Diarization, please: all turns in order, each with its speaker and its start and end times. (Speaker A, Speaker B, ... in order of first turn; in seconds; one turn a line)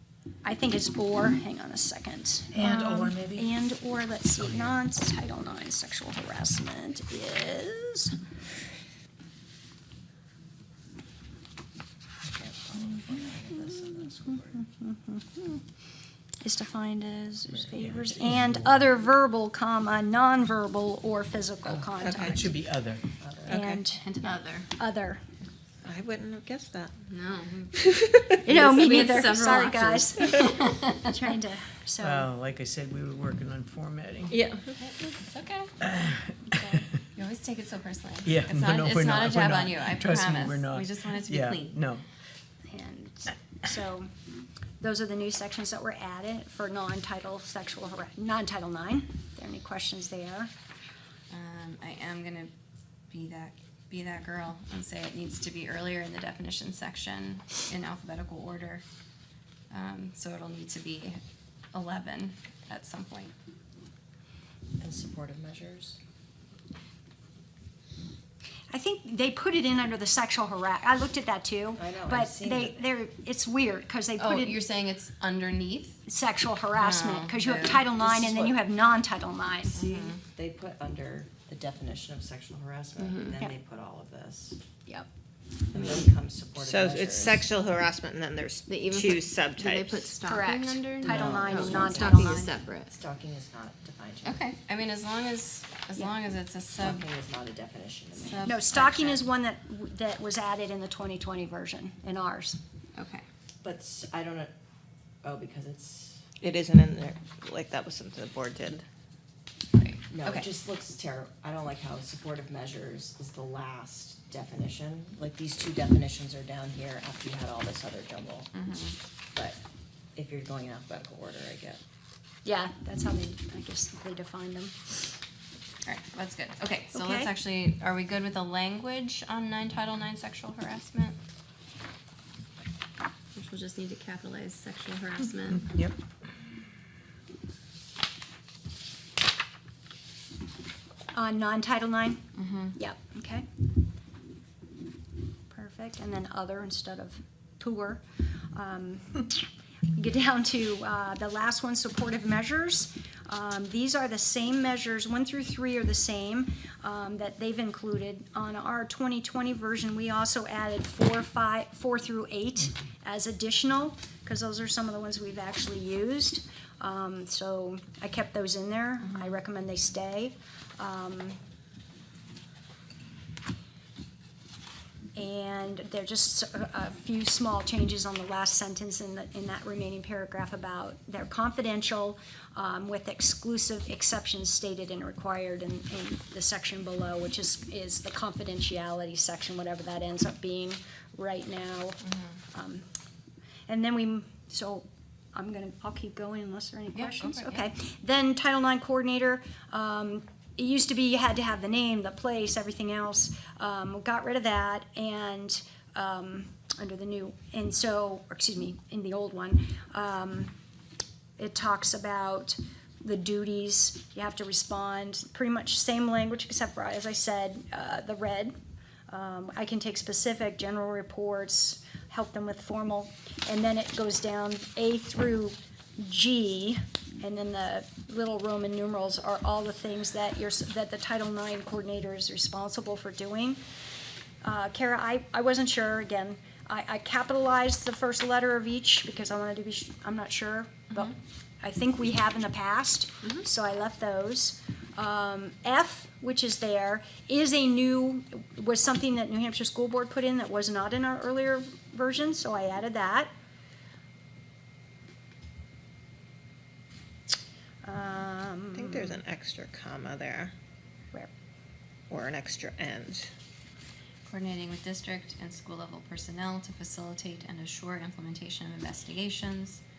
Speaker A: 0.4-8.2
Speaker B: 2.5-3.5
Speaker B: 4.4-4.8
Speaker C: 12.3-14.6
Speaker A: 13.6-15.6
Speaker A: 16.4-22.5
Speaker B: 17.6-18.9
Speaker D: 22.0-22.4
Speaker B: 22.1-23.1
Speaker C: 23.2-23.6
Speaker A: 23.5-24.0
Speaker E: 23.5-24.7
Speaker A: 24.8-25.2
Speaker D: 25.8-26.9
Speaker E: 27.1-27.8
Speaker D: 27.8-28.4
Speaker E: 28.4-31.1
Speaker A: 28.4-32.3
Speaker B: 32.0-34.3
Speaker D: 34.3-34.6
Speaker E: 34.7-35.7
Speaker B: 35.8-36.9
Speaker A: 36.5-36.8
Speaker E: 37.1-41.8
Speaker B: 38.2-42.0
Speaker A: 42.7-44.1
Speaker A: 44.8-50.5
Speaker E: 51.3-52.5
Speaker E: 53.1-58.8
Speaker E: 59.7-61.2
Speaker E: 61.7-63.3
Speaker C: 64.8-66.0
Speaker A: 68.7-74.6
Speaker C: 71.8-72.8
Speaker E: 74.2-76.0
Speaker A: 76.1-79.8
Speaker E: 76.8-78.6
Speaker E: 79.7-80.2
Speaker C: 79.7-84.6
Speaker E: 83.0-83.4
Speaker C: 85.7-87.4
Speaker D: 86.6-90.2
Speaker E: 88.7-92.9
Speaker A: 90.2-92.5
Speaker C: 91.0-94.5
Speaker E: 94.2-97.1
Speaker C: 96.8-98.6
Speaker E: 98.2-99.3
Speaker A: 98.4-102.6
Speaker E: 103.0-103.2
Speaker C: 103.6-104.5
Speaker C: 105.2-106.2
Speaker D: 106.4-108.8
Speaker E: 109.8-110.5
Speaker C: 110.1-118.5
Speaker E: 118.5-119.0
Speaker C: 119.3-119.6
Speaker C: 120.2-121.8
Speaker A: 122.4-124.8
Speaker E: 125.8-131.2
Speaker A: 126.9-127.3
Speaker E: 133.3-135.7
Speaker B: 135.6-135.9
Speaker A: 141.1-142.2
Speaker E: 142.4-142.8
Speaker A: 142.7-143.4
Speaker A: 145.5-148.0
Speaker A: 148.5-171.4
Speaker E: 169.0-169.4
Speaker A: 175.2-192.8
Speaker E: 192.0-192.4
Speaker A: 193.7-210.5
Speaker E: 196.9-197.7
Speaker A: 211.4-218.5
Speaker A: 219.1-233.6
Speaker A: 234.4-253.3
Speaker A: 257.8-259.2
Speaker D: 258.7-260.5
Speaker D: 262.1-263.3
Speaker E: 264.2-269.8